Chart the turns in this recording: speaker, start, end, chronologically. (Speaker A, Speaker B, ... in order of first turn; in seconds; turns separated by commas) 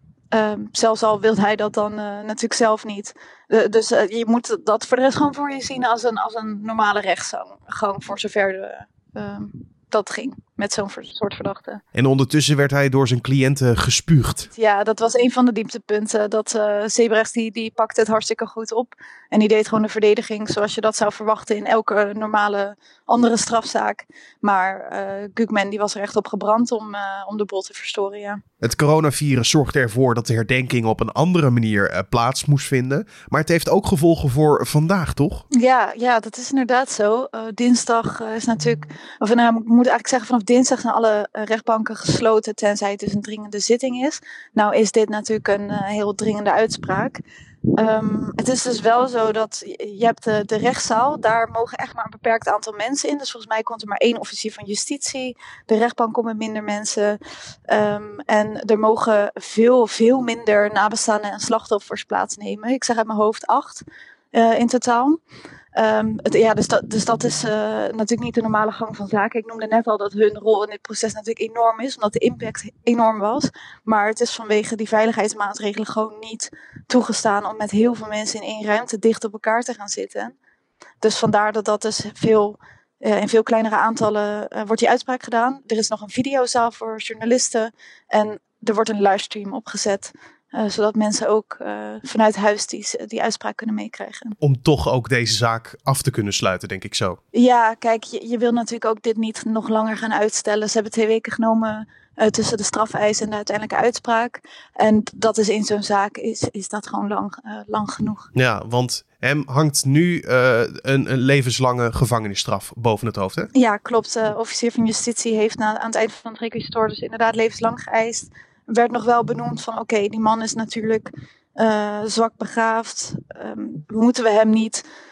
Speaker A: 0.3-11.8, Speaker B: 11.9-14.5, Speaker A: 14.5-28.4, Speaker B: 28.6-35.5, Speaker A: 35.5-47.2, Speaker A: 47.8-65.2, Speaker A: 65.7-80.3, Speaker A: 81.0-94.4, Speaker B: 94.4-97.2, Speaker A: 97.3-108.3, Speaker B: 108.3-113.5, Speaker A: 113.5-124.8